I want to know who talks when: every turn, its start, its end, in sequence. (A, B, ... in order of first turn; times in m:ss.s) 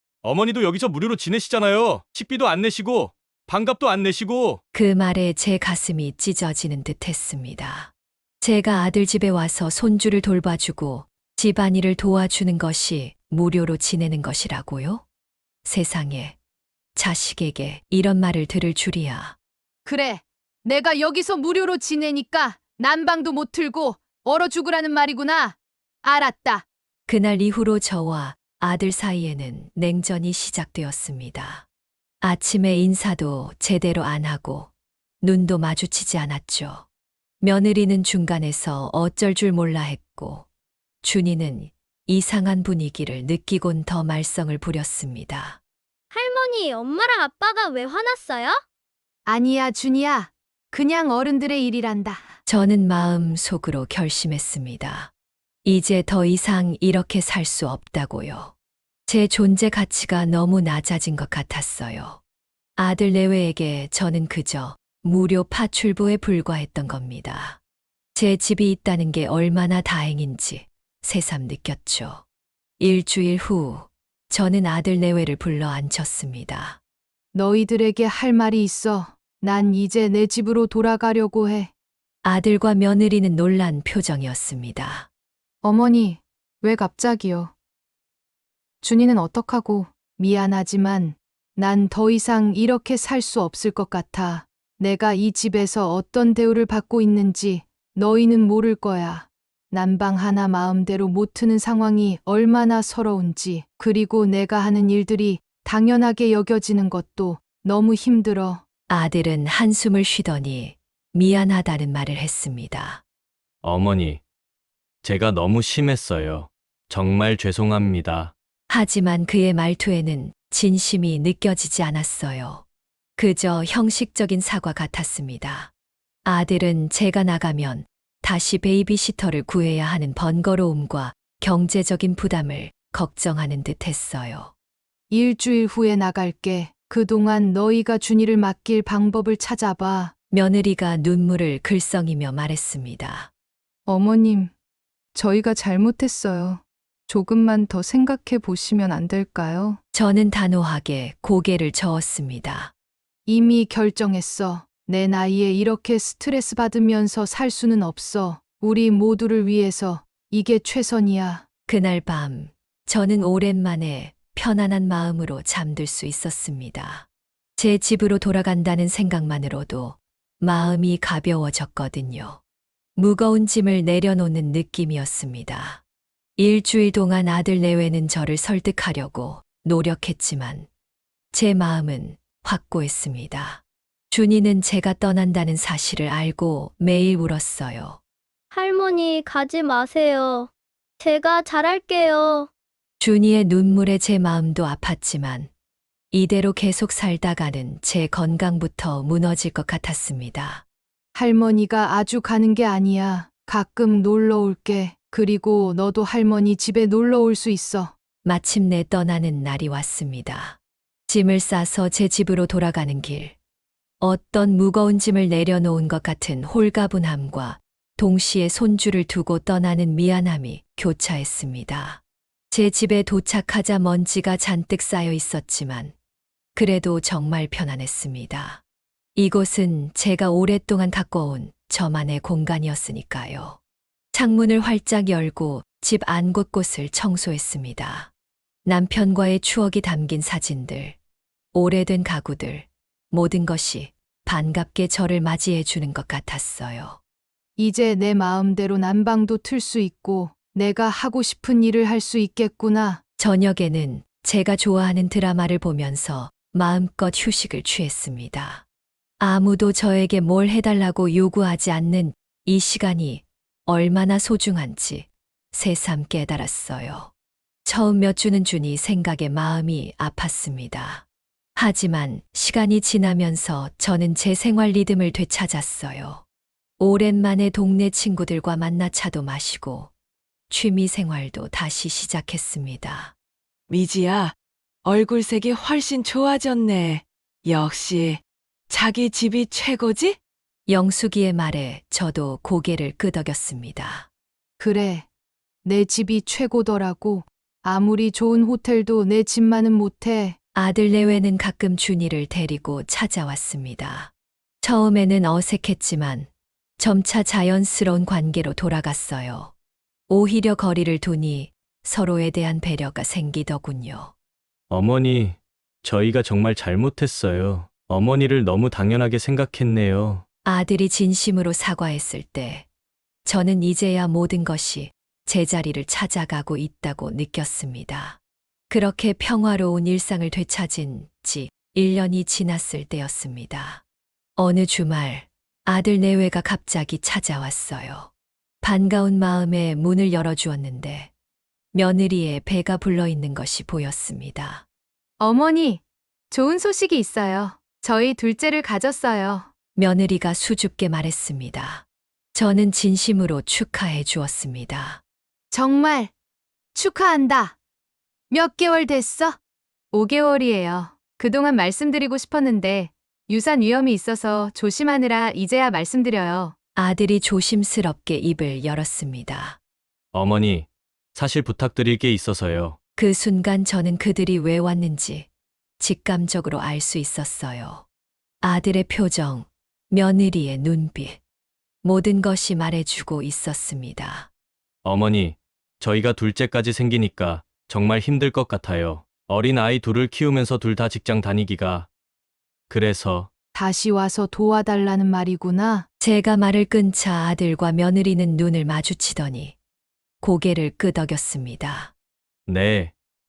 0:00.2-0:04.6 A
0:04.7-0:15.0 B
0:15.6-0:16.4 B
0:17.0-0:19.4 B
0:19.8-0:26.6 C
0:27.1-0:31.6 B
0:32.2-0:34.7 B
0:35.2-0:36.9 B
0:37.4-0:40.5 B
0:41.0-0:45.6 B
0:46.1-0:48.6 D
0:49.3-0:52.4 C
0:52.5-0:55.1 B
0:55.6-0:58.5 B
0:59.1-1:02.2 B
1:02.8-1:07.6 B
1:08.2-1:12.2 B
1:12.8-1:16.8 B
1:17.3-1:21.7 C
1:22.2-1:25.1 B
1:25.6-1:27.5 C
1:28.8-1:48.6 C
1:48.9-1:53.0 B
1:53.6-1:54.2 A
1:55.0-1:58.3 A
1:58.7-2:02.6 B
2:03.2-2:05.7 B
2:06.2-2:14.5 B
2:15.1-2:20.1 C
2:20.3-2:23.3 B
2:23.9-2:24.5 C
2:25.1-2:29.8 C
2:29.9-2:32.7 B
2:33.3-2:41.4 C
2:41.7-2:52.4 B
2:53.0-2:55.8 B
2:56.4-3:00.7 B
3:01.3-3:08.0 B
3:08.5-3:12.5 D
3:13.0-3:15.5 B
3:16.1-3:20.6 B
3:21.2-3:27.9 C
3:28.2-3:33.4 B
3:34.0-3:45.9 B
3:46.6-3:48.6 B
3:49.2-3:53.6 B
3:54.1-3:58.1 B
3:58.6-4:01.0 B
4:01.5-4:07.0 B
4:07.6-4:13.0 C
4:13.2-4:18.6 B
4:19.2-4:27.1 B
4:27.7-4:31.0 B
4:31.6-4:36.2 B
4:36.8-4:39.9 B
4:40.5-4:43.1 B
4:43.7-4:50.2 E
4:50.7-4:54.1 B
4:54.6-4:55.1 C
4:55.6-5:00.4 C
5:00.5-5:09.5 B
5:10.1-5:14.1 B
5:14.7-5:20.2 A
5:20.4-5:22.7 B
5:23.2-5:28.2 B
5:28.7-5:33.8 B
5:34.4-5:38.1 B
5:38.6-5:41.1 B
5:41.7-5:44.6 B
5:45.2-5:49.5 C
5:49.8-5:55.0 B
5:55.5-5:56.1 C
5:56.7-5:57.6 C
5:58.3-5:59.4 C
5:59.9-6:06.5 C
6:06.8-6:09.6 B
6:10.1-6:12.8 A
6:13.0-6:15.3 B
6:15.8-6:17.8 B
6:18.4-6:21.2 B
6:21.8-6:24.3 B
6:24.8-6:31.9 A
6:32.7-6:33.3 A
6:33.6-6:35.9 C
6:36.0-6:39.6 B
6:40.2-6:41.9 B
6:42.5-6:42.9 A